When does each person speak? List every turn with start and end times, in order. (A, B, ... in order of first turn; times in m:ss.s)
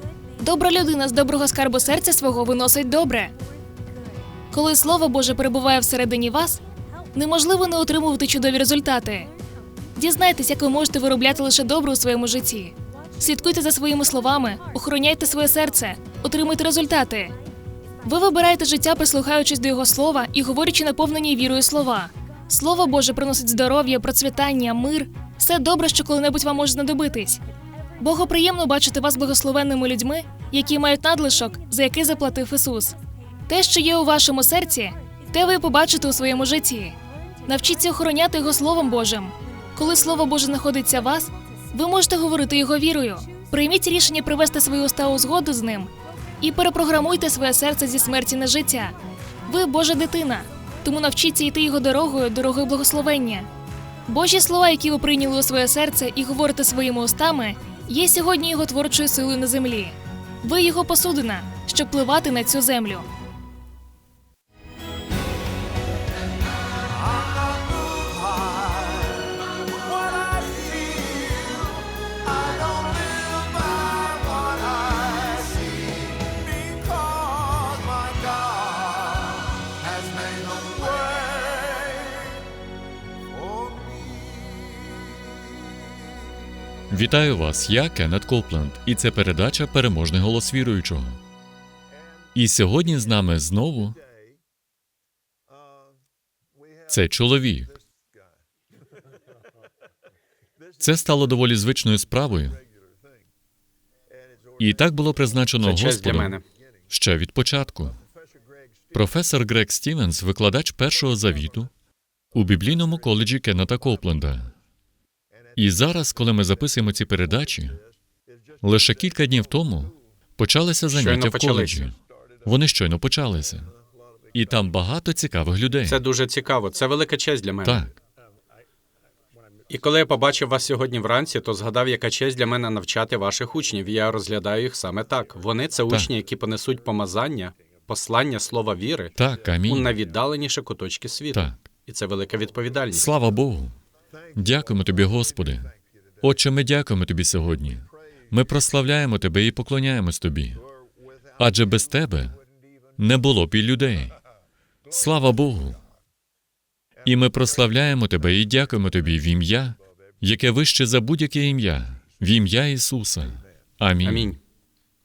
0:00.4-0:03.3 A
0:04.5-0:06.6 A
0:07.2-0:09.3 A
0:10.0-0:17.4 A
0:18.0-0:27.4 A
0:28.0-0:33.0 A
0:33.5-0:53.5 A
0:54.1-1:03.1 A
1:26.9-1:31.2 B
1:32.4-1:34.0 B
1:36.9-1:37.8 B
1:40.8-1:42.6 B
1:44.6-1:46.4 B
1:45.6-1:46.4 C
1:46.9-1:48.0 B
1:48.9-1:51.7 B
1:52.3-1:54.5 B
1:55.6-1:57.8 B
1:58.6-2:03.7 B
2:00.9-2:01.9 C
2:04.3-2:06.0 B
2:05.9-2:07.9 C
2:07.6-2:08.0 B
2:09.7-2:19.2 C
2:19.2-2:19.9 B
2:19.7-2:23.1 C
2:21.3-2:21.6 B
2:22.9-2:23.8 B
2:24.4-2:30.6 B
2:31.4-2:32.4 B
2:33.0-2:34.2 B
2:34.9-2:35.8 B
2:37.0-2:44.4 B
2:44.0-2:44.4 C